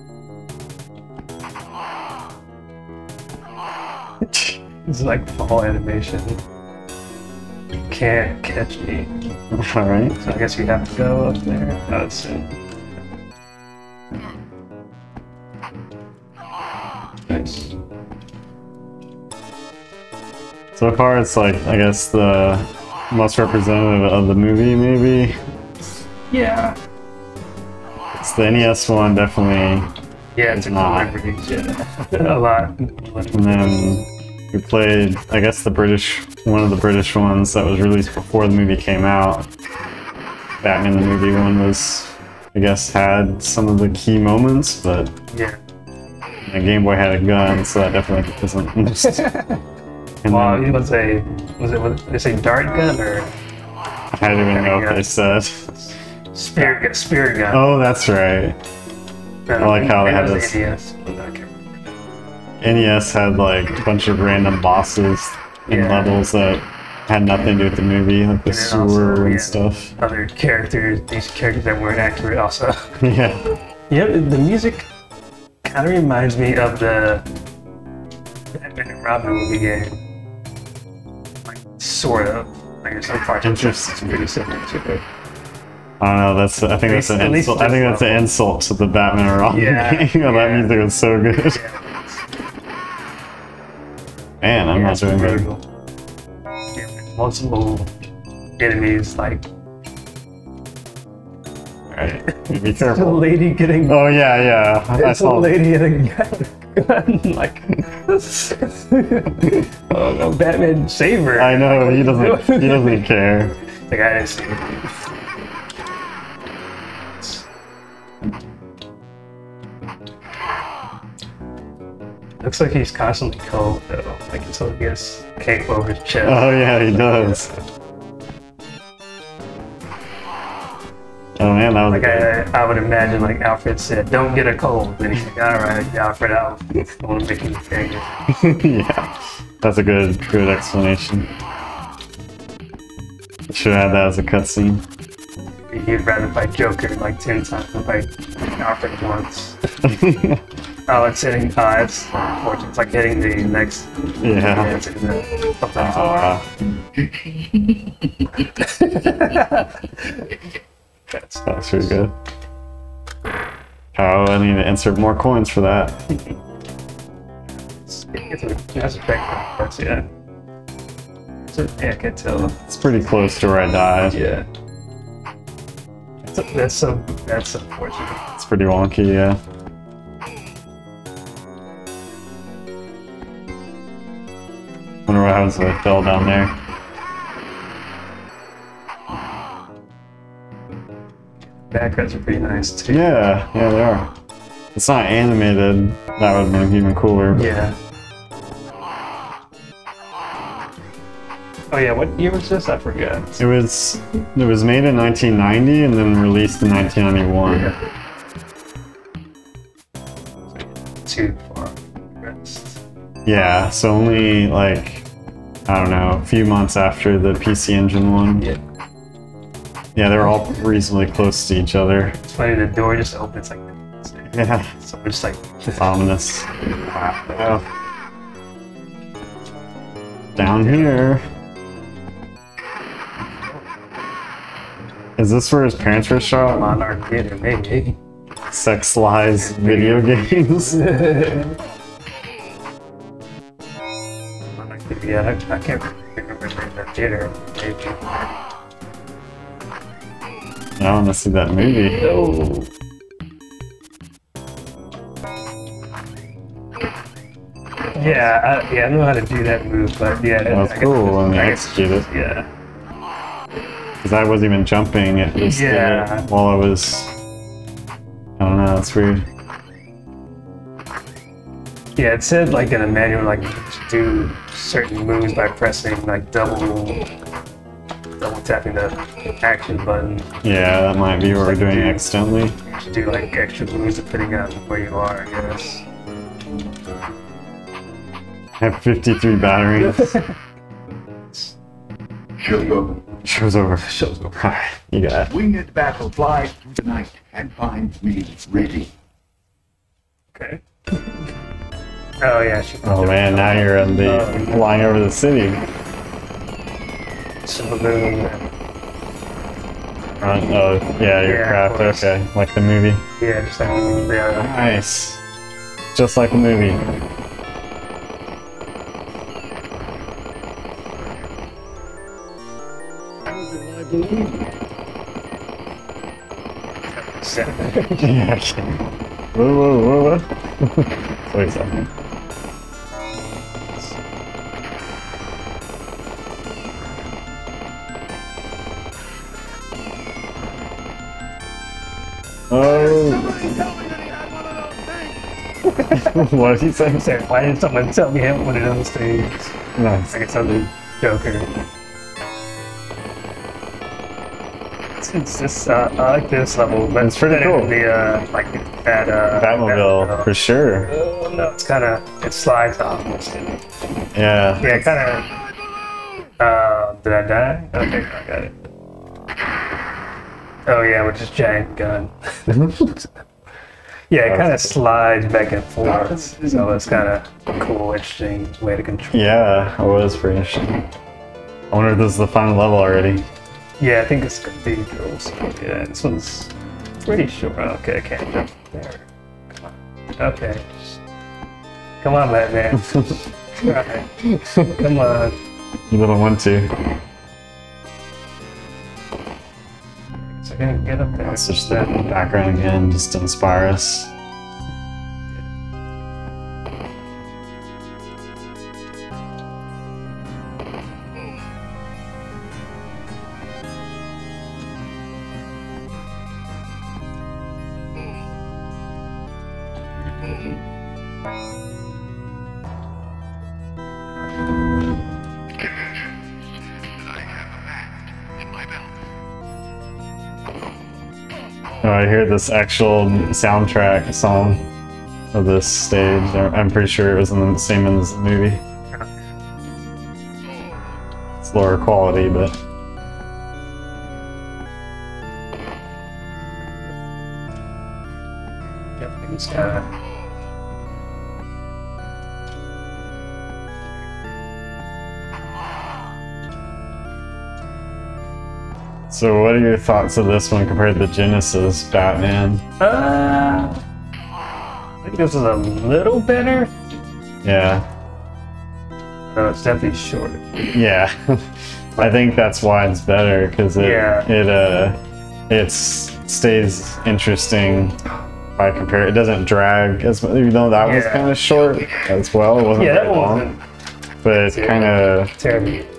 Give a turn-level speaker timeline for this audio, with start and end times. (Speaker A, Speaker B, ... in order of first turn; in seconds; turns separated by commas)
Speaker A: 4.3-4.6, Speaker B: 4.8-6.4, Speaker B: 7.9-9.1, Speaker A: 9.5-10.2, Speaker B: 10.2-12.6, Speaker B: 17.3-17.7, Speaker A: 20.8-25.4, Speaker B: 26.3-26.8, Speaker A: 28.1-29.9, Speaker B: 30.4-34.0, Speaker A: 30.5-31.1, Speaker A: 33.3-39.5, Speaker A: 40.6-45.1, Speaker B: 45.3-45.6, Speaker A: 46.4-49.3, Speaker B: 49.0-49.6, Speaker A: 50.2-50.8, Speaker B: 50.3-53.3, Speaker A: 54.1-55.8, Speaker B: 54.2-55.1, Speaker B: 56.3-57.6, Speaker A: 56.6-56.8, Speaker A: 57.5-58.6, Speaker B: 59.5-62.0, Speaker A: 59.6-60.6, Speaker A: 62.6-69.9, Speaker B: 65.7-66.2, Speaker B: 68.5-73.0, Speaker A: 73.0-73.4, Speaker B: 73.9-74.9, Speaker B: 75.6-77.3, Speaker B: 78.5-80.0, Speaker B: 81.5-85.0, Speaker A: 83.4-84.2, Speaker A: 86.0-91.6, Speaker B: 86.9-88.3, Speaker B: 89.5-90.8, Speaker B: 91.5-92.1, Speaker A: 94.4-95.5, Speaker B: 94.7-95.6, Speaker B: 96.8-97.9, Speaker B: 98.6-99.5, Speaker A: 101.9-105.6, Speaker B: 102.7-104.2, Speaker B: 104.9-113.1, Speaker A: 111.3-113.5, Speaker B: 113.9-114.9, Speaker B: 122.4-127.6, Speaker A: 126.2-127.5, Speaker A: 131.4-132.3, Speaker B: 131.9-138.1, Speaker A: 138.3-141.3, Speaker A: 143.5-144.8, Speaker B: 145.7-149.7, Speaker A: 149.8-150.4, Speaker B: 150.9-156.3, Speaker A: 154.2-154.8, Speaker A: 155.8-156.4, Speaker B: 158.4-160.4, Speaker B: 161.1-162.0, Speaker A: 161.4-162.1, Speaker A: 163.9-166.0, Speaker B: 166.1-166.4, Speaker B: 167.8-170.1, Speaker B: 171.4-172.7, Speaker A: 172.7-174.2, Speaker B: 174.1-174.5, Speaker B: 176.3-178.2, Speaker A: 178.3-179.4, Speaker A: 185.1-186.6, Speaker B: 191.5-193.2, Speaker A: 192.9-194.1, Speaker A: 194.7-197.6, Speaker B: 197.3-197.8, Speaker B: 201.7-203.4, Speaker A: 203.4-207.7, Speaker B: 207.5-207.8, Speaker B: 210.5-212.8, Speaker A: 213.3-215.1, Speaker A: 215.7-218.5, Speaker A: 219.9-222.2, Speaker B: 222.2-225.9, Speaker A: 224.3-224.7, Speaker A: 225.8-227.7, Speaker A: 230.4-231.2, Speaker B: 230.5-231.0, Speaker A: 235.2-236.8, Speaker B: 236.5-238.0, Speaker A: 238.5-241.2, Speaker B: 239.4-241.6, Speaker B: 244.6-248.2, Speaker A: 250.8-252.1, Speaker B: 252.0-252.7, Speaker B: 257.9-262.5, Speaker A: 258.0-258.3, Speaker A: 260.5-262.1, Speaker A: 264.0-267.1, Speaker B: 265.5-266.3, Speaker A: 268.4-269.3, Speaker B: 272.0-277.1, Speaker B: 278.2-280.3, Speaker A: 280.4-282.6, Speaker B: 281.3-285.9, Speaker A: 288.6-290.2, Speaker B: 289.8-290.4, Speaker C: 292.4-293.0, Speaker B: 292.6-292.9, Speaker A: 293.2-295.3, Speaker B: 293.8-294.4, Speaker C: 295.3-298.9, Speaker B: 300.4-301.2, Speaker B: 302.2-304.9, Speaker A: 302.8-305.6, Speaker B: 307.4-308.5, Speaker A: 310.2-313.1, Speaker B: 311.2-312.1, Speaker B: 313.2-314.7, Speaker A: 314.4-315.2, Speaker A: 315.9-316.9, Speaker C: 323.7-324.2, Speaker B: 326.9-328.2, Speaker A: 328.0-331.9, Speaker A: 342.5-343.5, Speaker C: 343.4-345.1, Speaker B: 345.6-346.3, Speaker A: 345.9-347.1, Speaker B: 346.9-349.6, Speaker A: 349.8-350.2, Speaker B: 350.1-351.5, Speaker B: 355.0-360.3, Speaker A: 357.0-357.8, Speaker A: 359.3-360.9, Speaker B: 360.9-363.6, Speaker A: 364.1-365.0, Speaker B: 364.6-365.3, Speaker B: 366.4-368.6, Speaker B: 370.7-373.1, Speaker A: 372.5-372.9, Speaker B: 374.1-379.7, Speaker A: 374.2-374.8, Speaker A: 379.1-380.8, Speaker A: 381.7-383.3, Speaker B: 383.8-391.0, Speaker B: 392.0-395.4, Speaker A: 394.3-394.7, Speaker A: 395.9-396.8, Speaker B: 400.2-402.3, Speaker A: 401.2-404.1, Speaker C: 427.1-427.9, Speaker C: 428.4-428.8, Speaker A: 431.8-434.7, Speaker A: 435.3-438.6, Speaker A: 441.4-442.6, Speaker B: 449.0-449.9, Speaker A: 459.1-462.6, Speaker B: 462.8-463.8, Speaker B: 465.0-466.7, Speaker A: 467.4-467.9, Speaker B: 469.3-470.5, Speaker A: 470.7-478.0, Speaker B: 473.8-474.3, Speaker A: 478.6-483.5, Speaker B: 480.8-481.4, Speaker C: 481.8-482.1, Speaker B: 482.8-483.6, Speaker A: 484.2-485.3, Speaker B: 484.4-485.9